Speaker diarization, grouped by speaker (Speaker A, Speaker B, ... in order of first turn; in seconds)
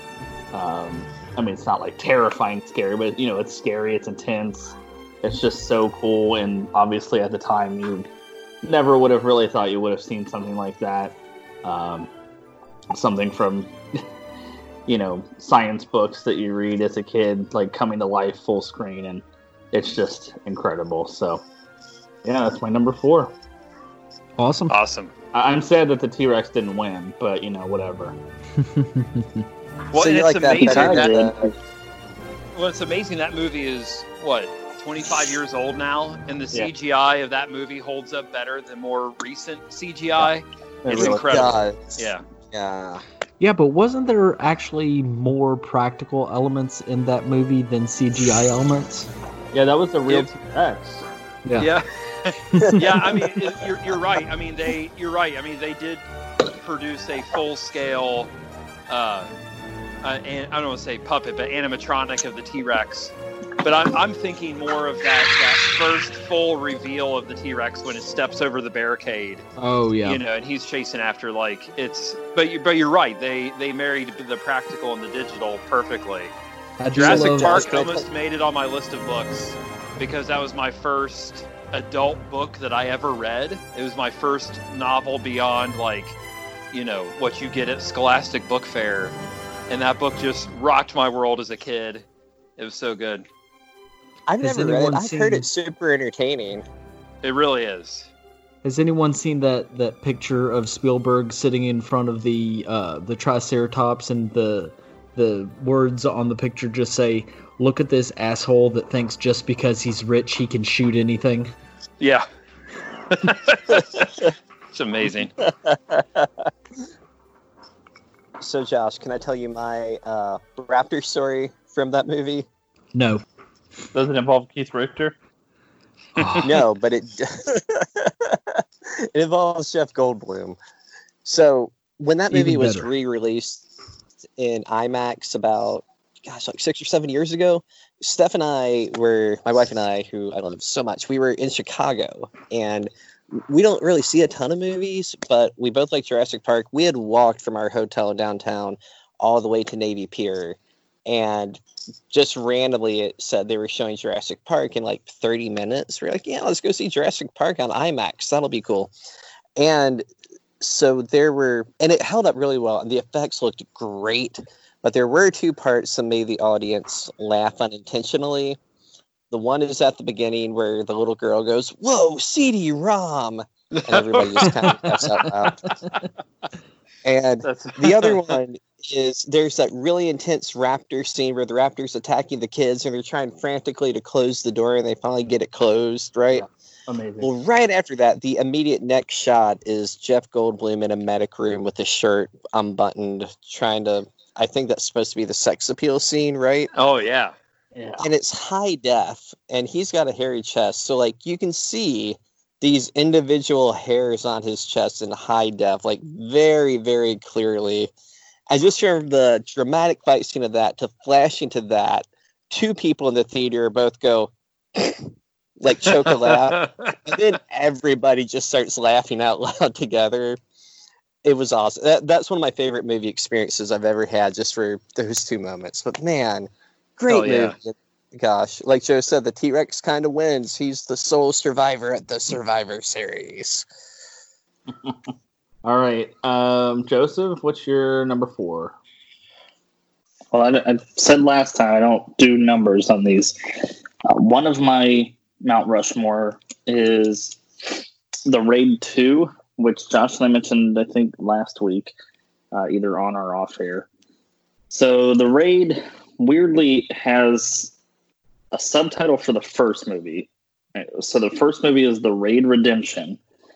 Speaker A: 0.5-8.1, 8.6-12.1, 12.9-13.7, 14.9-21.4, 22.2-23.3, 25.3-28.1, 40.8-41.2, 49.5-51.0, 123.9-125.2, 186.3-187.3, 197.8-198.1, 235.6-238.8
Speaker B: 24.4-24.8, 28.6-29.4, 43.4-49.1, 51.4-51.7, 69.6-70.2, 76.8-77.6, 94.4-95.5, 98.6-111.5, 122.9-123.2, 126.2-126.5, 132.3-132.9, 175.2-176.1
Speaker C: 24.7-25.1, 29.9-31.1, 32.5-42.2, 51.6-56.0, 56.5-58.3, 58.9-59.3, 60.0-69.4, 70.0-76.3, 76.9-86.2, 86.7-89.1, 89.7-92.0, 92.6-93.2, 97.2-98.1, 112.0-112.2, 113.1-114.0, 114.7-115.3, 173.8-175.0, 177.4-178.4, 196.7-197.3, 216.1-216.9, 227.1-227.5
Speaker D: 29.9-31.5, 40.9-43.0, 77.0-78.1, 94.3-96.6, 118.4-122.5, 126.4-130.6, 131.2-133.6, 134.4-158.9, 159.6-160.1, 160.6-168.6, 169.3-175.7, 177.0-186.5, 187.2-196.7, 198.0-207.9, 208.5-214.9, 215.6-220.4, 221.2-233.7
Speaker E: 30.6-31.5, 240.3-243.3, 244.1-247.4, 248.2-251.9, 252.5-253.9, 254.7-257.7, 258.5-263.2